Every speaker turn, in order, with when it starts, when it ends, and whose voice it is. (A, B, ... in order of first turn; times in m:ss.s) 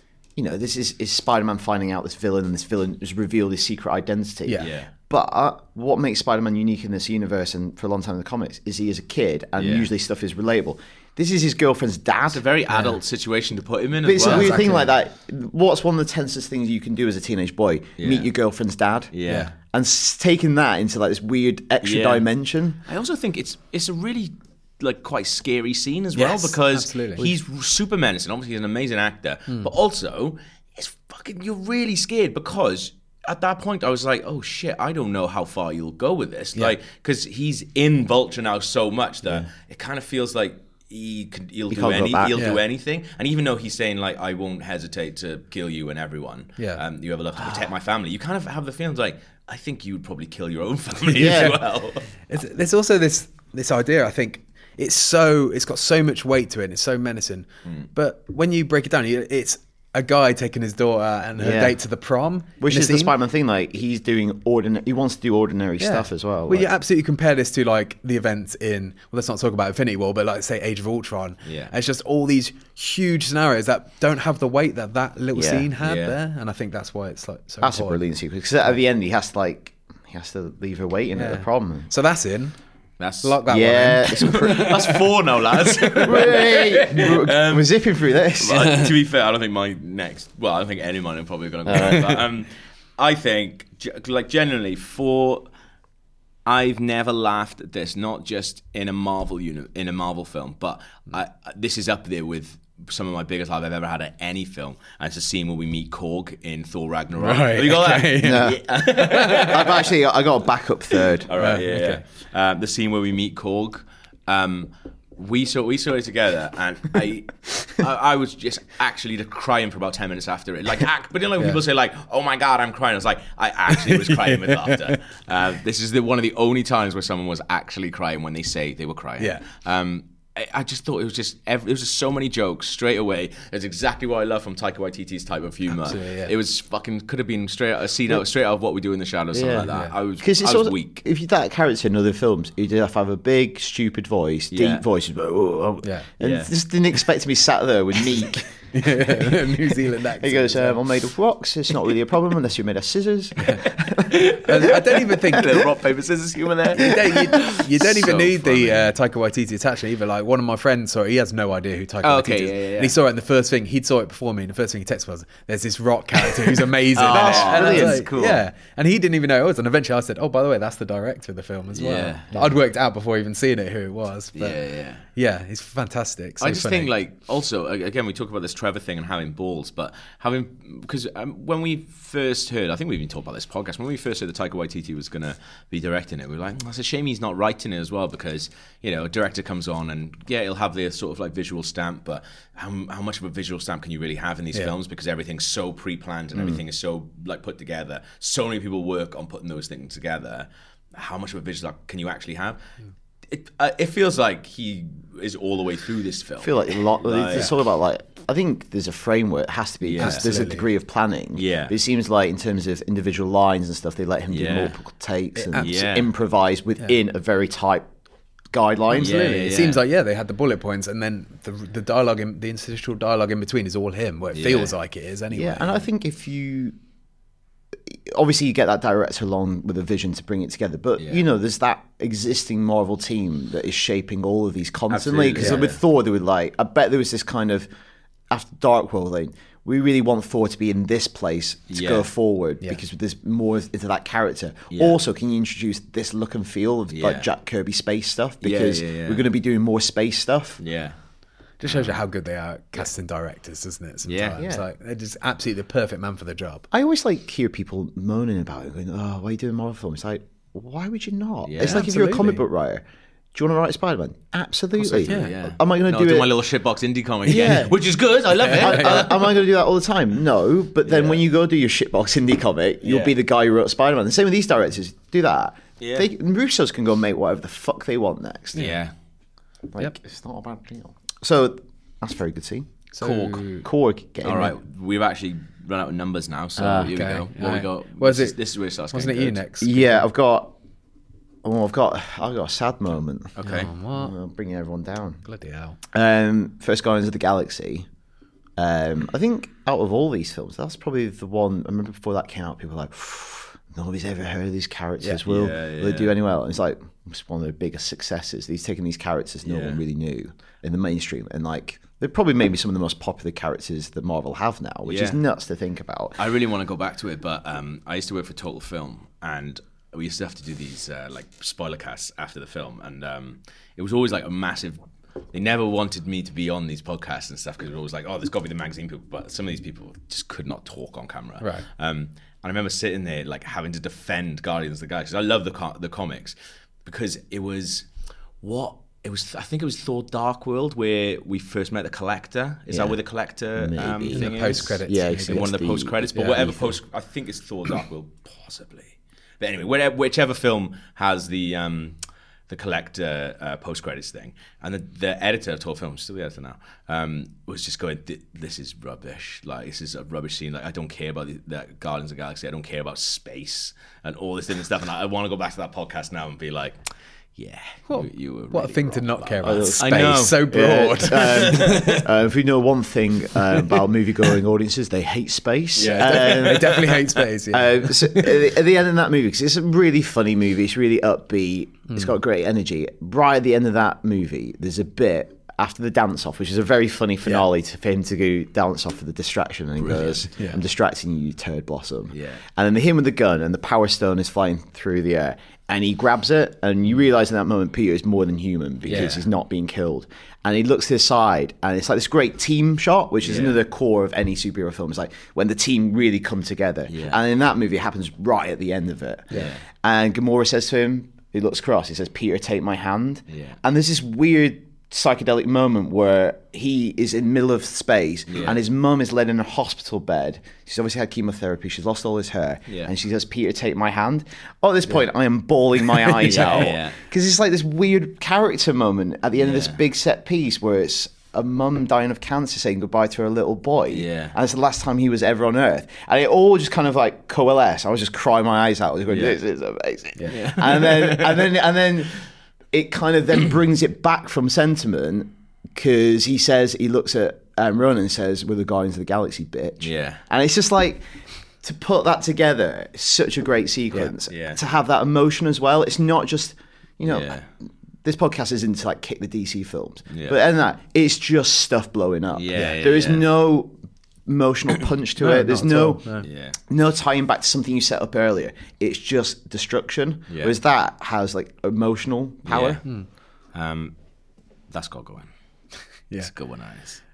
0:00.4-0:12.4 A
0:04.6-0:04.9 B
0:09.6-0:09.9 B
0:12.3-0:14.8 B
0:12.7-0:13.0 C
0:14.0-0:22.8 A
0:14.2-0:14.9 C
0:18.0-0:18.3 B
0:19.1-0:19.5 B
0:19.3-0:19.5 C
0:21.8-0:22.3 B
0:22.9-0:52.1 B
0:26.2-0:27.3 C
0:41.7-0:42.4 A
0:42.3-0:42.6 C
0:51.1-0:51.6 A
0:51.2-0:51.6 C
0:52.3-1:03.2 C
1:01.4-1:01.8 A
1:02.6-1:06.7 A
1:05.8-1:18.0 C
1:11.4-1:11.7 B
1:15.4-1:15.7 A
1:15.8-1:16.2 B
1:17.6-1:21.9 A
1:21.2-1:22.5 C
1:23.0-1:23.4 B
1:23.2-1:24.7 C
1:23.5-1:25.0 A
1:24.1-1:27.8 B
1:26.0-1:28.9 A
1:28.4-1:35.5 B
1:31.7-1:32.0 A
1:36.5-1:49.9 B
1:47.2-1:49.5 C
1:48.2-1:51.3 A
1:51.3-2:21.0 B
1:51.4-1:52.0 C
2:03.8-2:04.8 C
2:15.8-2:16.3 C
2:19.3-2:28.5 A
2:19.6-2:19.9 C
2:24.5-2:24.8 B
2:26.2-2:26.5 B
2:28.7-2:30.8 C
2:30.2-2:34.0 A
2:34.0-2:38.9 B
2:34.3-2:35.6 C
2:36.8-2:54.6 C
2:42.0-2:43.0 B
2:46.9-2:48.4 B
2:47.0-2:48.4 A
2:51.8-2:52.4 B
2:54.4-2:55.0 B
2:55.2-2:56.9 C
2:56.4-3:22.6 B
3:23.3-3:27.5 B
3:26.4-3:37.9 A
3:29.8-3:30.3 B
3:30.0-3:30.7 C
3:31.4-3:31.7 B
3:34.3-3:34.7 B
3:35.4-3:35.7 C
3:35.6-3:36.1 B
3:38.5-3:39.4 A
3:38.9-3:45.8 C
3:39.0-3:39.8 B
3:44.3-3:44.7 B
3:45.3-3:46.8 A
3:47.9-3:57.7 A
3:51.0-3:51.2 B
3:54.9-3:55.8 B
3:55.4-3:55.6 C
3:58.3-4:10.6 A
4:01.7-4:02.1 B
4:04.7-4:05.0 B
4:06.9-4:07.3 B
4:08.4-4:09.3 B
4:10.6-4:11.0 B
4:11.6-4:16.7 C
4:11.7-4:11.9 B
4:14.0-4:14.4 B
4:14.4-4:14.6 A
4:16.7-4:26.3 A
4:21.4-4:21.8 B
4:21.6-4:22.4 C
4:24.8-4:29.4 B
4:27.3-4:27.8 A
4:28.4-4:38.7 A
4:28.4-4:28.9 C
4:30.9-4:31.2 B
4:32.8-4:33.2 B
4:35.8-4:36.1 B
4:38.6-4:38.9 B
4:39.7-4:44.6 A
4:43.0-4:43.7 C
4:43.0-4:43.3 B
4:44.2-4:49.4 B
4:46.6-4:46.9 A
4:46.9-4:48.4 C
4:48.9-4:50.0 C
4:49.6-4:50.5 A
4:51.4-4:53.3 A
4:53.4-4:53.7 B
4:53.4-4:54.1 C
4:53.9-4:55.2 A
4:55.2-4:55.8 C
4:55.9-4:57.9 A
4:58.6-5:16.2 A
5:05.2-5:06.2 B
5:09.4-5:09.8 B
5:14.9-5:15.2 B
5:16.2-5:24.8 B
5:25.3-5:37.9 B
5:38.4-5:52.0 B
5:42.7-5:43.0 A
5:43.6-5:46.8 A
5:44.1-5:45.5 C
5:46.2-5:46.5 C
5:52.5-6:06.8 B
6:07.4-6:12.1 B
6:07.9-6:12.0 C
6:09.4-6:16.9 A
6:15.8-6:17.2 B
6:15.8-6:18.4 C
6:17.5-7:22.2 A
6:29.8-6:30.3 B
6:32.1-6:32.4 B
6:38.9-6:39.3 B
6:43.2-6:43.6 B
6:46.9-6:47.2 B
6:49.3-6:49.6 B
6:53.3-6:53.6 B
6:58.3-6:58.6 B
7:02.7-7:02.9 B
7:06.2-7:07.0 B
7:09.4-7:09.8 B
7:13.9-7:14.4 B
7:19.1-7:19.4 B
7:20.3-7:21.5 B
7:22.7-7:31.0 A
7:29.8-7:30.2 B
7:31.6-7:37.4 A
7:34.3-7:34.6 B
7:37.0-7:37.5 B
7:38.0-7:43.7 A
7:40.1-7:40.4 B
7:42.3-7:43.3 B
7:44.3-7:46.1 A
7:45.2-7:46.2 C
7:46.2-7:46.6 B
7:46.7-7:52.8 A
7:50.3-7:50.6 B
7:52.5-7:52.8 B
7:53.5-7:54.0 B
7:54.7-7:55.3 B
7:56.2-7:57.0 B